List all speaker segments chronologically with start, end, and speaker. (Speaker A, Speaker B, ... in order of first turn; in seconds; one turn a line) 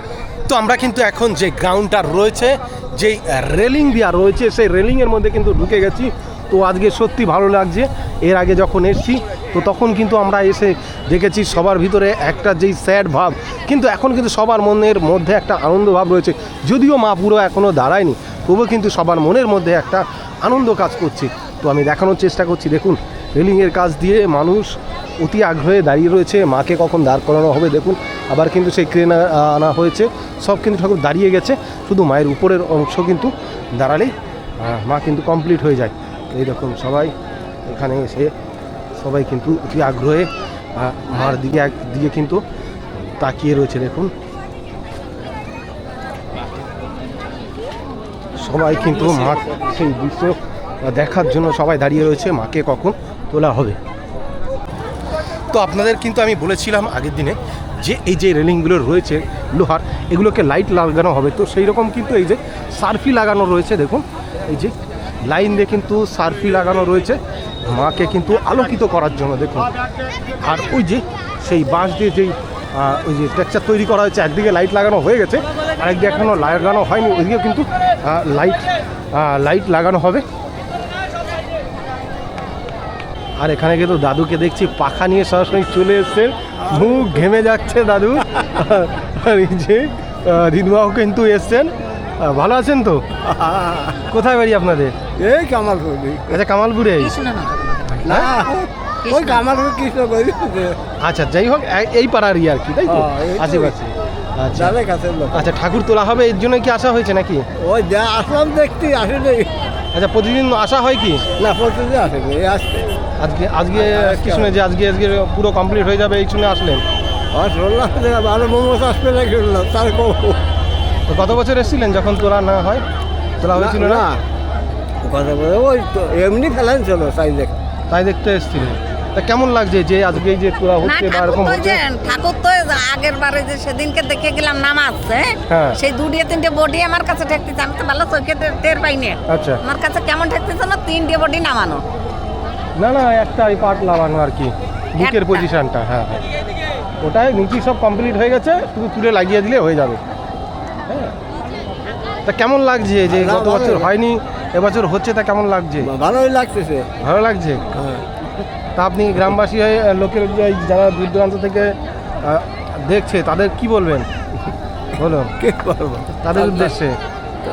Speaker A: 0.5-37.1
Speaker A: 37.6-38.3
Speaker A: 39.0-42.4
Speaker A: 43.0-44.1
Speaker A: 48.4-53.8
Speaker A: 55.5-64.7
Speaker A: 65.3-69.7
Speaker A: 70.4-80.2
Speaker A: 83.4-93.0
Speaker B: 93.2-94.1
Speaker A: 94.1-94.9
Speaker B: 95.2-96.4
Speaker A: 96.3-97.1
Speaker C: 97.0-98.1
Speaker B: 98.0-100.8
Speaker A: 98.1-98.3
Speaker C: 99.0-99.5
Speaker A: 101.0-104.7
Speaker B: 102.9-103.8
Speaker B: 104.5-105.5
Speaker A: 105.3-107.5
Speaker B: 107.6-109.5
Speaker A: 109.9-111.3
Speaker B: 111.3-113.0
Speaker A: 113.2-116.8
Speaker B: 113.7-114.6
Speaker B: 117.3-120.4
Speaker A: 121.1-122.8
Speaker A: 123.4-124.0
Speaker B: 123.4-124.2
Speaker B: 125.0-127.6
Speaker A: 127.9-131.8
Speaker C: 130.8-141.8
Speaker A: 135.5-135.8
Speaker A: 139.3-139.6
Speaker A: 142.8-146.2
Speaker C: 145.0-145.5
Speaker A: 147.0-150.0
Speaker A: 150.9-151.1
Speaker A: 152.3-155.9
Speaker B: 153.1-153.9
Speaker B: 155.8-156.9
Speaker A: 157.0-157.6
Speaker B: 157.7-158.1
Speaker A: 158.8-164.1
Speaker A: 165.0-165.3
Speaker B: 165.4-166.7
Speaker A: 166.2-167.0